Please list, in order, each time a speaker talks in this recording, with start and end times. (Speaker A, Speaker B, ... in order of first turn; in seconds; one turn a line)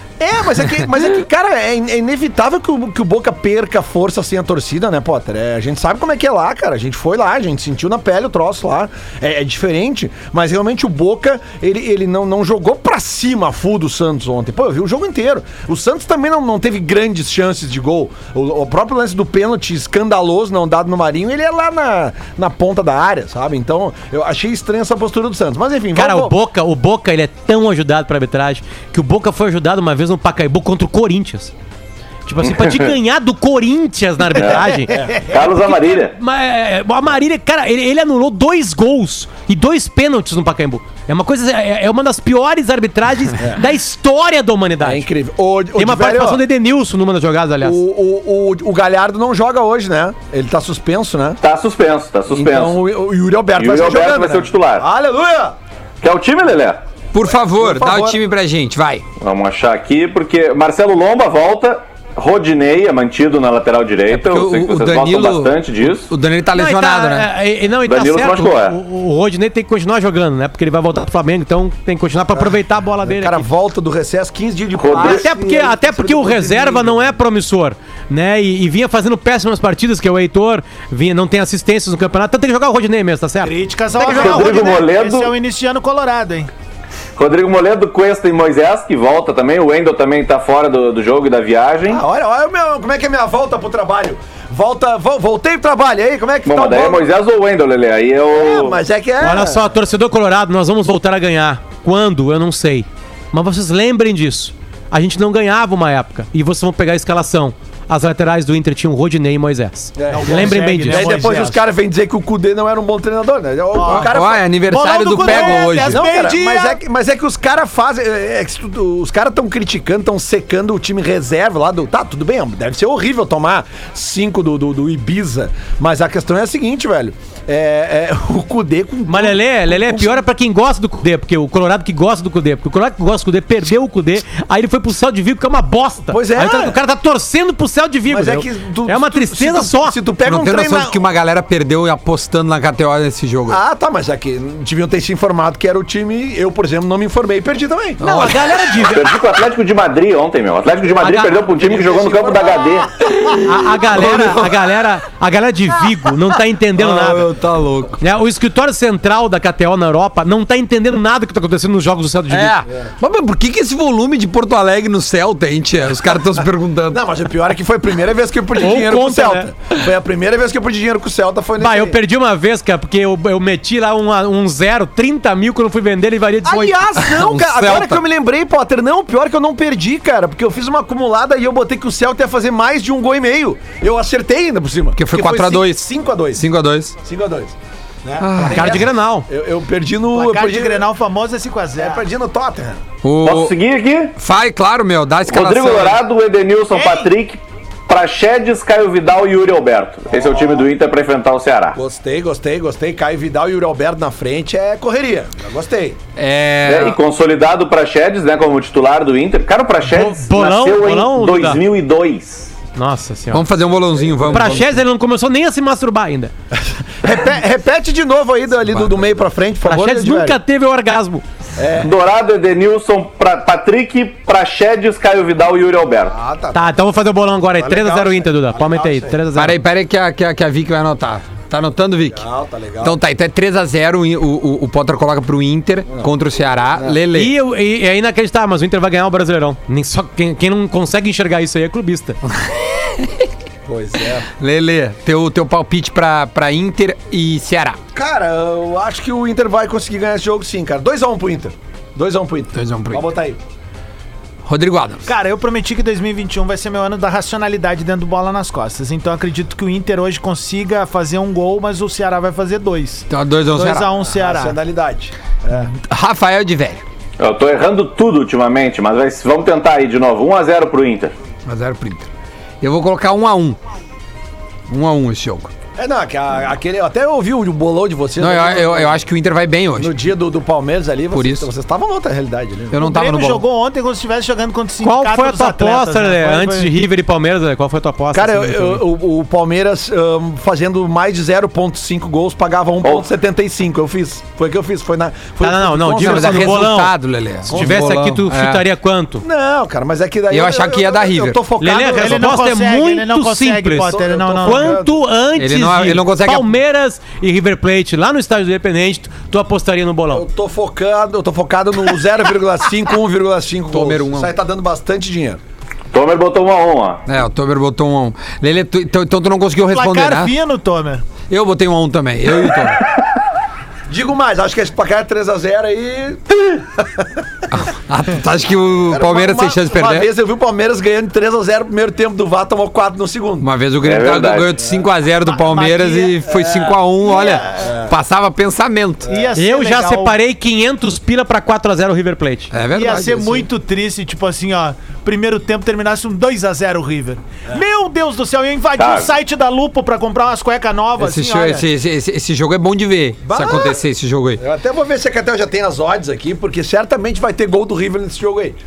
Speaker A: 0.2-26.4
Speaker B: 25.9-31.5
Speaker B: 32.2-34.9
Speaker C: 32.5-32.9
Speaker C: 34.4-34.6
Speaker D: 34.5-35.2
Speaker A: 34.9-35.2
Speaker C: 35.2-36.1
Speaker B: 35.7-45.1
Speaker A: 44.8-46.4
Speaker B: 45.7-47.8
Speaker A: 47.6-51.4
Speaker C: 51.4-52.8
Speaker A: 52.3-55.5
Speaker C: 53.6-54.9
Speaker C: 56.0-56.8
Speaker E: 57.1-59.0
Speaker A: 57.3-58.2
Speaker C: 59.2-66.0
Speaker E: 64.1-67.3
Speaker B: 66.5-73.4
Speaker C: 67.8-68.8
Speaker A: 72.3-77.1
Speaker C: 74.8-75.3
Speaker B: 75.0-84.4
Speaker D: 83.4-86.5
Speaker C: 84.0-85.3
Speaker C: 87.2-92.0
Speaker A: 91.9-97.1
Speaker C: 96.5-98.8
Speaker A: 98.3-99.7
Speaker B: 99.2-111.1
Speaker A: 110.0-114.5
Speaker D: 110.1-111.6
Speaker D: 113.7-116.8
Speaker E: 113.9-116.0
Speaker A: 115.2-130.2
Speaker B: 129.1-140.0
Speaker A: 136.1-136.8
Speaker A: 138.1-140.9
Speaker E: 140.2-143.6
Speaker A: 143.5-148.0
Speaker E: 148.0-148.5
Speaker B: 148.0-149.1
Speaker C: 148.8-152.9
Speaker B: 151.0-151.3
Speaker A: 151.4-152.9
Speaker E: 153.1-154.7
Speaker B: 153.4-157.3
Speaker E: 156.8-158.0
Speaker B: 158.0-162.6
Speaker E: 162.3-167.0
Speaker A: 166.9-172.0
Speaker B: 168.6-169.5
Speaker B: 171.6-176.8
Speaker A: 176.4-186.4
Speaker E: 177.1-178.0
Speaker E: 185.0-186.9
Speaker A: 187.0-190.9
Speaker E: 188.2-188.8
Speaker B: 188.5-189.2
Speaker D: 190.1-192.0
Speaker A: 191.8-192.8
Speaker E: 193.0-193.5
Speaker C: 193.2-194.1
Speaker E: 194.2-196.0
Speaker C: 195.3-201.8
Speaker D: 196.7-197.1
Speaker A: 200.1-200.7
Speaker A: 201.7-206.0
Speaker E: 206.2-207.0
Speaker C: 206.6-212.5
Speaker B: 209.8-211.6
Speaker B: 212.8-213.4
Speaker E: 213.3-214.7
Speaker A: 214.0-214.2
Speaker B: 214.3-216.3
Speaker A: 216.7-220.4
Speaker B: 219.6-221.2
Speaker A: 221.6-221.9
Speaker C: 221.8-226.1
Speaker A: 226.1-226.8
Speaker B: 226.5-229.6
Speaker A: 227.5-229.2
Speaker E: 229.3-232.2
Speaker A: 232.1-233.0
Speaker E: 232.8-237.3
Speaker A: 235.9-237.0
Speaker B: 237.1-242.2
Speaker E: 242.4-243.3
Speaker A: 243.7-244.3
Speaker E: 244.4-247.8
Speaker A: 247.9-253.4
Speaker E: 252.5-253.0
Speaker E: 254.4-255.1
Speaker D: 255.1-264.6
Speaker E: 263.1-263.9
Speaker A: 263.9-265.7
Speaker E: 265.7-266.8
Speaker C: 267.2-271.1
Speaker E: 271.4-272.1
Speaker E: 272.6-273.6
Speaker E: 274.7-275.5
Speaker A: 275.8-279.0
Speaker E: 278.2-279.9
Speaker A: 279.8-282.9
Speaker E: 281.1-281.5
Speaker E: 282.7-283.4
Speaker D: 282.8-286.8
Speaker B: 284.8-288.8
Speaker A: 288.1-296.8
Speaker B: 295.4-299.2
Speaker E: 296.0-298.6
Speaker A: 297.5-297.9
Speaker A: 299.2-302.4
Speaker E: 300.3-301.4
Speaker B: 301.6-310.2
Speaker D: 301.9-304.8
Speaker A: 303.8-305.0
Speaker E: 305.4-306.6
Speaker A: 310.1-315.4
Speaker E: 313.7-314.3
Speaker C: 315.9-317.0
Speaker E: 317.1-320.3
Speaker D: 319.7-321.1
Speaker E: 321.3-322.9
Speaker A: 323.9-327.1
Speaker E: 327.5-330.1
Speaker A: 328.9-333.5
Speaker E: 333.4-339.1
Speaker C: 333.8-334.5
Speaker D: 335.2-336.2
Speaker A: 336.2-336.8
Speaker D: 337.0-337.7
Speaker A: 337.6-337.9
Speaker A: 339.0-339.4
Speaker D: 339.1-340.2
Speaker B: 339.3-342.5
Speaker E: 342.5-343.5
Speaker D: 342.7-351.7
Speaker C: 348.8-349.1
Speaker E: 351.0-354.4
Speaker A: 353.2-353.8
Speaker A: 354.4-358.6